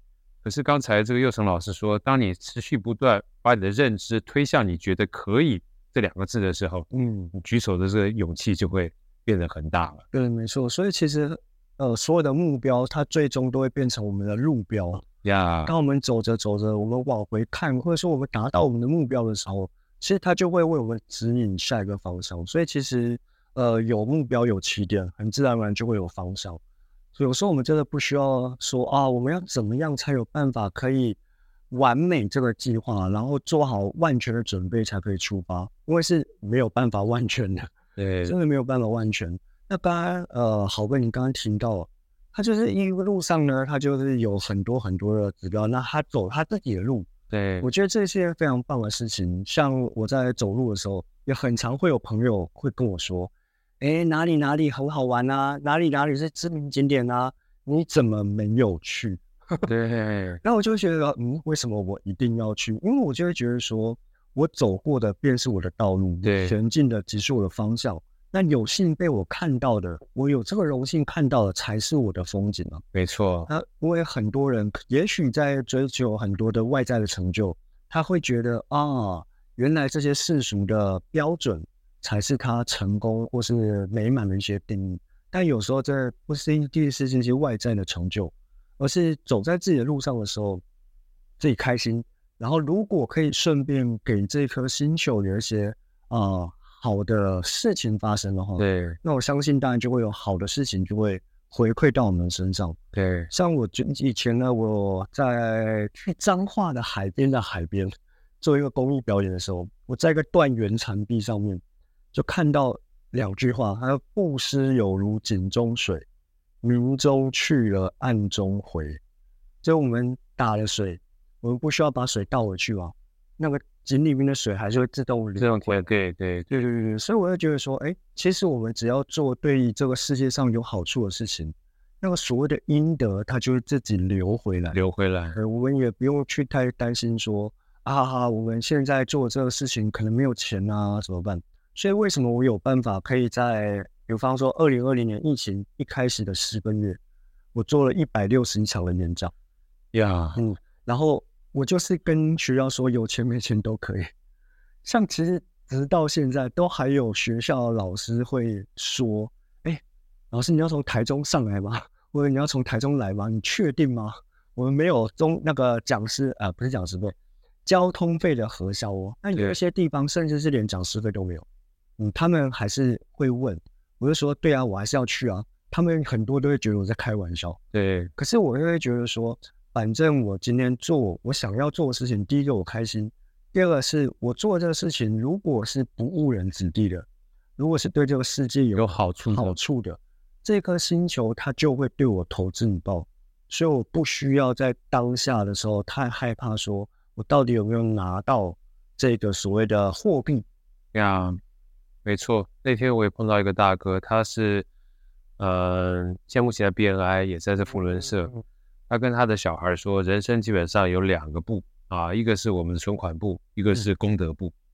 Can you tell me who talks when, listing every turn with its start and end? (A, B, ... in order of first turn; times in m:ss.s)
0:00.4-0:10.0 A
0:06.9-0:07.3 B
0:10.1-0:15.0 B
0:15.2-0:15.7 A
0:15.6-0:26.6 B
0:27.2-0:31.2 B
0:31.7-0:37.7 B
0:38.0-0:38.4 A
0:38.2-0:47.1 B
0:47.3-0:47.7 A
0:47.6-0:59.7 B
0:59.7-1:00.4 A
1:00.4-1:12.8 B
1:06.2-1:06.6 A
1:12.9-1:13.5 A
1:13.5-1:30.6 B
1:31.4-1:42.8 B
1:38.6-1:39.0 A
1:42.9-1:43.3 A
1:43.3-1:51.6 B
1:52.1-1:56.0 B
1:56.6-1:59.0 B
1:59.6-2:05.9 B
2:05.4-2:06.5 A
2:06.5-2:14.8 B
2:14.7-2:15.4 A
2:15.3-2:27.0 B
2:27.5-2:29.3 B
2:29.9-2:30.4 A
2:30.4-2:34.1 B
2:34.8-2:51.5 B
2:52.0-2:57.6 B
2:57.7-2:58.1 A
2:58.2-3:20.5 B
3:08.8-3:09.6 A
3:20.9-3:21.4 A
3:22.0-3:24.7 A
3:25.4-3:28.3 A
3:28.9-3:34.5 A